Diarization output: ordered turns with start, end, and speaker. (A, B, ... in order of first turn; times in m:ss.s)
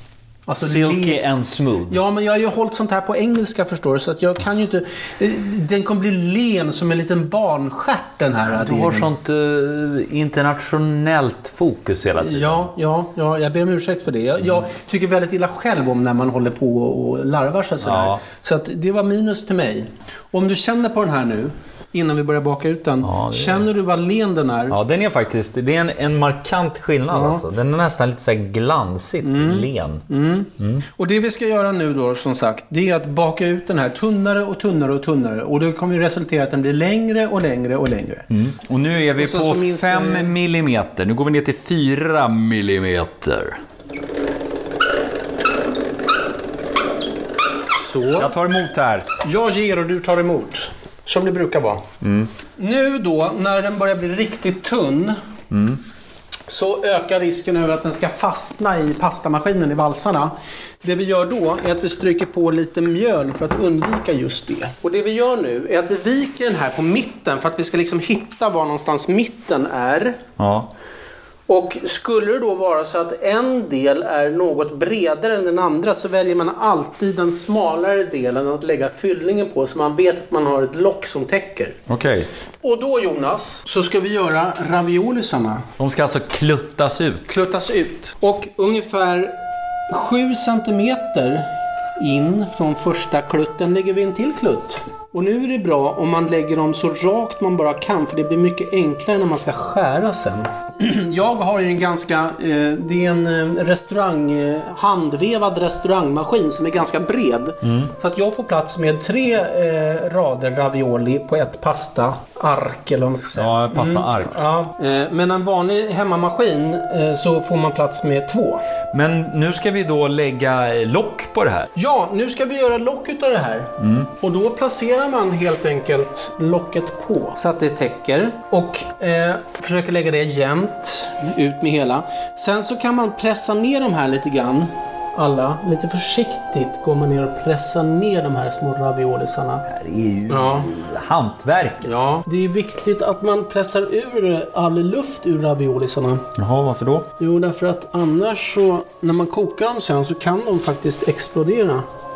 0:00.5-0:01.2 A
0:00.6-0:02.0 B
0:01.9-0:09.1 A
0:08.5-0:12.7 B
0:12.2-0:24.8 A
0:17.8-0:18.2 B
0:23.0-0:23.7 B
0:24.7-0:30.0 B
0:27.1-0:27.4 A
0:29.2-0:38.3 A
0:30.6-0:30.8 B
0:38.3-0:43.6 B
0:39.2-0:40.3 A
0:47.7-0:48.3 A
0:48.2-0:49.1 B
0:49.2-0:51.8 A
0:52.0-0:52.3 B
0:52.6-0:55.2 A
0:55.5-0:55.8 B
0:56.5-1:10.2 A
1:10.4-1:10.7 B
1:11.5-1:21.8 A
1:21.9-1:22.3 B
1:22.6-1:25.6 A
1:25.8-1:27.3 B
1:27.3-1:29.3 A
1:29.9-1:58.6 A
1:47.6-1:47.9 B
1:53.4-1:54.4 B
1:58.9-2:01.7 B
2:01.8-2:19.6 A
2:03.8-2:04.1 B
2:19.7-2:22.0 B
2:20.3-2:20.7 A
2:21.8-2:26.3 A
2:26.4-2:27.1 B
2:27.2-2:31.9 A